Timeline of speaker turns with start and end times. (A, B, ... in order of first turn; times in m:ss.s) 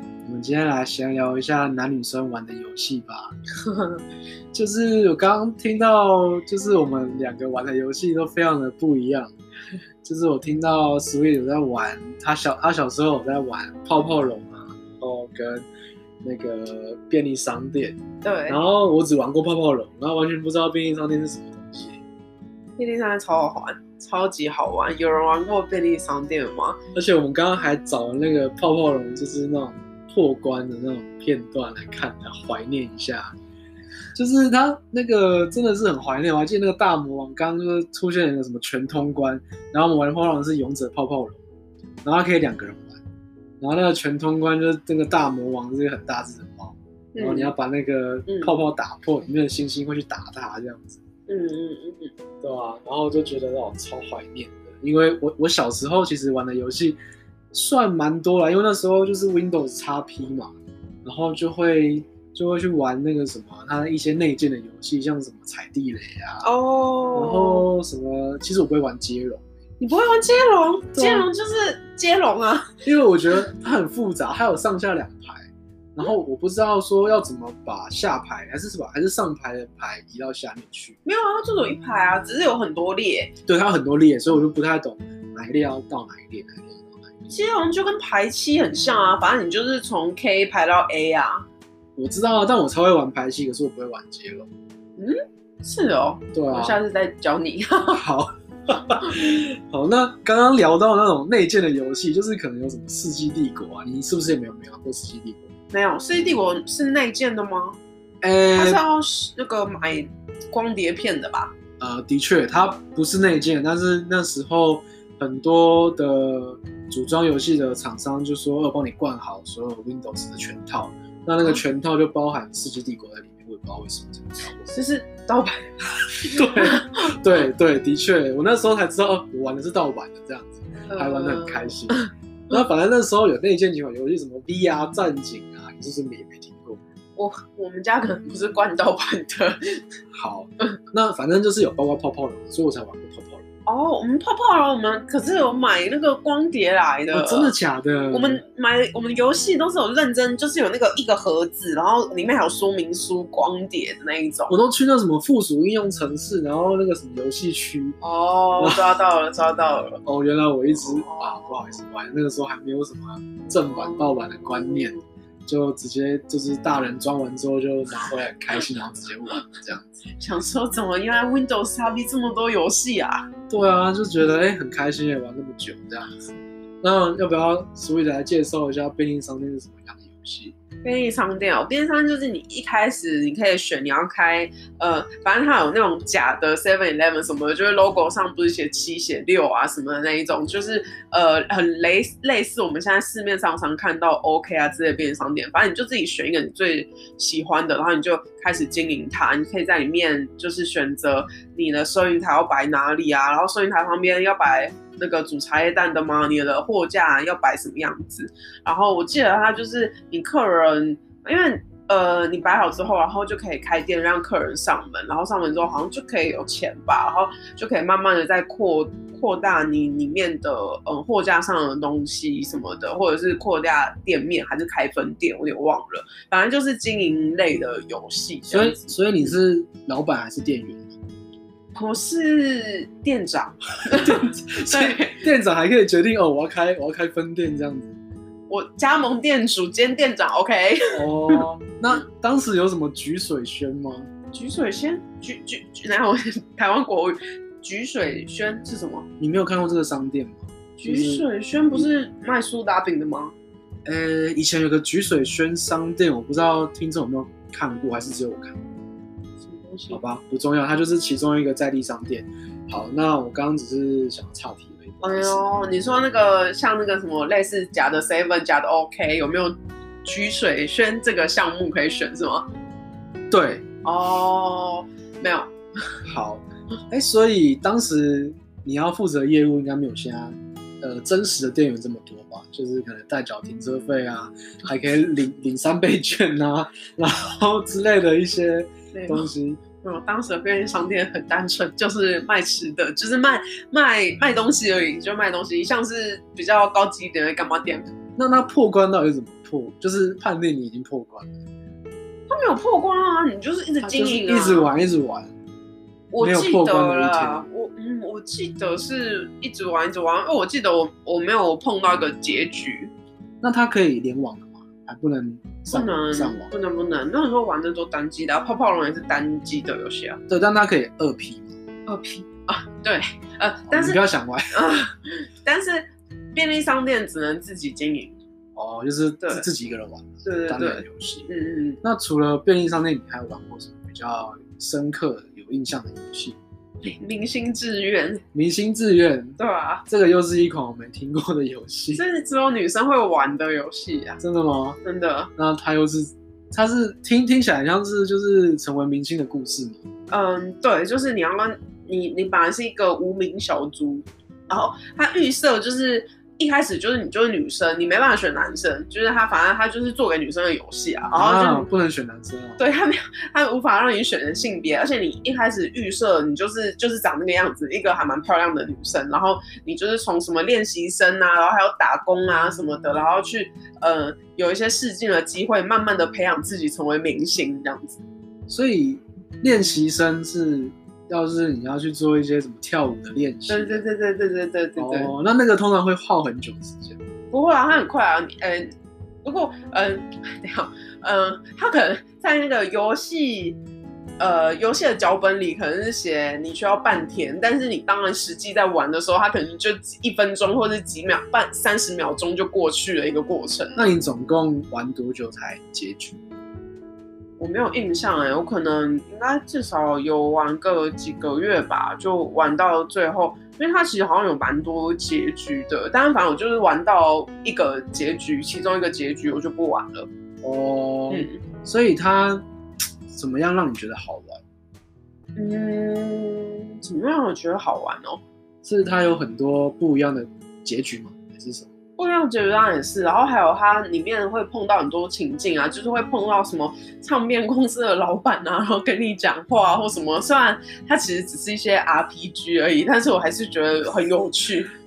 0:00.2-0:03.3 A
0:03.6-0:04.0 B
0:04.5-0:09.3 A
0:10.0-0:15.7 A
0:16.2-0:22.0 A
0:18.2-0:18.6 B
0:22.8-0:26.8 B
0:26.9-0:33.4 A
0:34.1-0:41.4 A
0:42.0-0:43.0 A
0:43.6-0:51.0 A
0:47.1-0:47.5 B
0:48.3-0:48.5 B
0:51.3-0:52.1 B
0:52.4-0:57.0 A
0:57.5-1:00.5 A
1:01.0-1:06.5 A
1:06.4-1:07.7 B
1:07.1-1:09.4 A
1:09.8-1:12.8 B
1:10.9-1:11.3 A
1:12.8-1:21.0 A
1:21.0-1:23.3 B
1:23.5-1:27.3 A
1:27.3-1:31.4 B
1:32.0-1:34.5 A
1:35.0-1:38.0 B
1:36.3-1:36.8 A
1:37.9-1:45.5 A
1:45.7-1:47.8 B
1:48.2-1:48.8 A
1:48.6-1:51.6 B
1:51.8-2:04.7 A
2:04.7-2:07.1 B
2:06.3-2:16.8 A
2:10.9-2:12.1 B
2:17.2-2:19.8 B
2:20.1-2:23.4 A
2:23.6-2:27.5 B
2:27.1-2:28.4 A
2:28.1-2:34.6 B
2:34.5-2:38.0 A
2:38.0-2:40.0 B
2:38.6-2:38.9 A
2:40.0-2:50.0 A
2:40.7-2:41.6 B
2:43.7-2:44.9 B
2:50.2-2:53.3 B
2:53.5-2:56.1 A
2:56.8-3:00.5 A
3:00.8-3:49.3 B
3:48.5-3:50.9 A
3:51.7-3:55.2 B
3:53.9-3:57.9 A
3:58.5-4:01.4 B
4:00.9-4:04.1 A
4:04.3-4:09.0 B
4:09.2-4:11.9 A
4:10.8-4:13.3 B
4:13.8-4:18.6 A
4:19.4-4:20.0 B
4:19.9-4:25.4 A
4:25.0-4:32.5 B
4:33.3-4:33.6 A
4:33.8-4:35.5 B
4:36.0-4:49.6 A
4:48.9-4:49.3 B
4:49.8-4:57.9 B
4:58.2-5:01.4 A
5:02.3-5:04.7 B
5:03.8-5:05.3 A
5:06.1-5:12.9 B
5:06.2-5:07.4 A
5:13.4-5:16.5 A
5:15.7-5:20.2 B
5:20.3-5:21.5 A
5:21.9-5:24.0 B
5:23.7-5:24.6 A
5:24.5-5:28.2 B
5:28.6-5:31.3 A
5:30.2-5:31.8 B
5:31.8-5:36.4 A
5:36.8-5:38.2 B
5:38.3-5:42.0 A
5:39.4-5:39.8 B
5:41.9-5:44.2 B
5:44.2-5:44.8 A
5:44.8-5:45.3 B
5:45.4-5:49.8 A
5:50.1-6:01.7 B
6:01.1-6:02.6 A
6:02.6-6:18.0 B
6:18.5-6:23.8 A
6:23.5-6:25.1 B
6:24.8-6:27.0 A
6:27.3-6:28.7 B
6:29.2-6:33.6 B
6:34.2-6:43.9 B
6:43.8-6:46.2 A
6:47.4-7:00.1 B
7:00.4-7:02.4 A
7:01.1-7:01.4 B
7:03.1-7:04.4 A
7:05.4-7:08.2 B
7:08.6-7:11.7 A
7:12.0-7:24.7 B